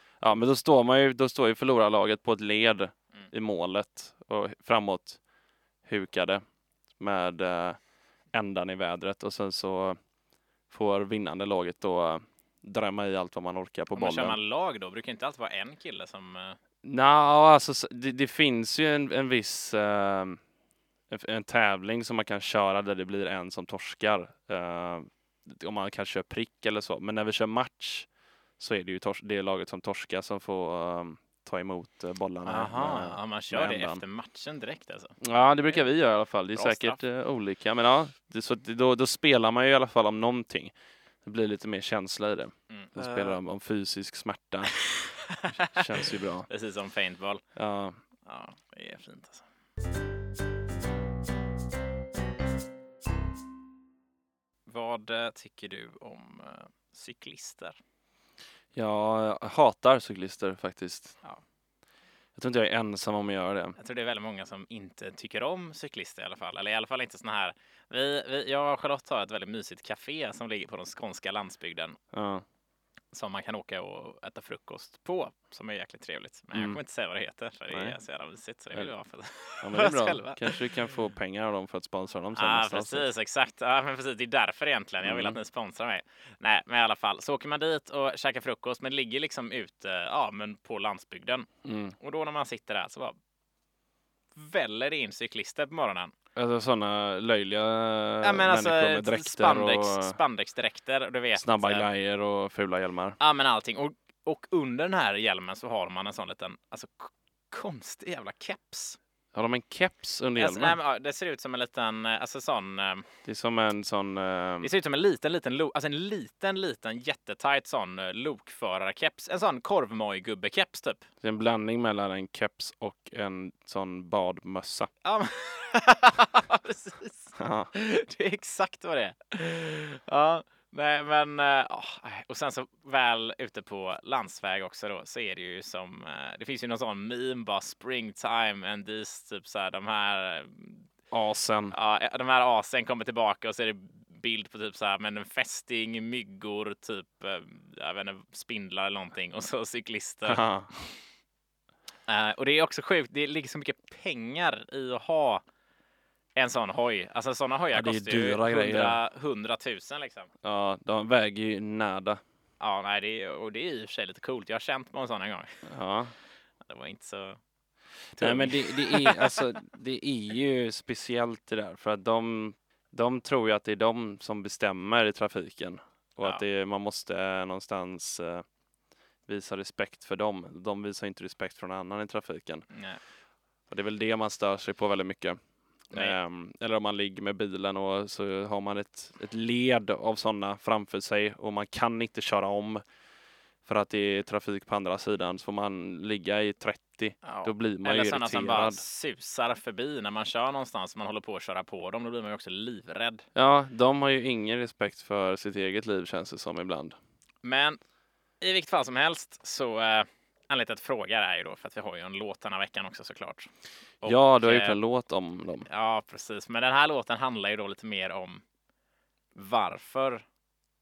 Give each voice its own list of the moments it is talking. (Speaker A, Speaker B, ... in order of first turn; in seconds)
Speaker A: 0.2-5.2, 5.8-6.4, 7.0-7.8, 8.3-10.0, 10.7-14.3, 16.8-20.4, 21.1-28.1, 28.6-34.0, 35.2-40.7, 41.2-44.8, 45.5-46.5, 47.5-48.0, 58.7-61.1, 62.4-63.8, 72.1-72.4, 76.5-76.8, 77.7-78.0, 79.6-83.1, 85.0-85.4, 91.6-91.9, 96.3-100.2, 101.3-103.2, 109.3-110.8, 113.2-114.7, 121.2-124.9, 127.3-127.7, 141.1-141.7, 150.2-150.7, 157.7-159.0, 160.4-162.2, 165.6-166.1, 168.2-178.4, 179.3-182.7, 183.7-192.8, 193.6-198.8, 203.3-206.9, 214.0-215.7
Speaker B: 13.9-16.6, 32.4-35.8, 36.5-37.0, 42.7-43.4, 45.0-47.4, 48.2-49.4, 54.7-57.8, 63.8-72.0, 73.1-80.5, 82.3-91.5, 92.0-93.2, 94.3-96.1, 98.2-101.8, 103.2-109.0, 110.4-113.0, 114.6-121.0, 125.0-140.8, 141.7-150.4, 152.1-155.4, 156.3-160.3, 162.6-165.6, 166.7-167.4, 168.1-169.4, 182.7-183.0, 197.2-203.2, 207.4-207.8, 208.4-213.5, 214.0-214.8, 215.7-218.4, 219.3-220.2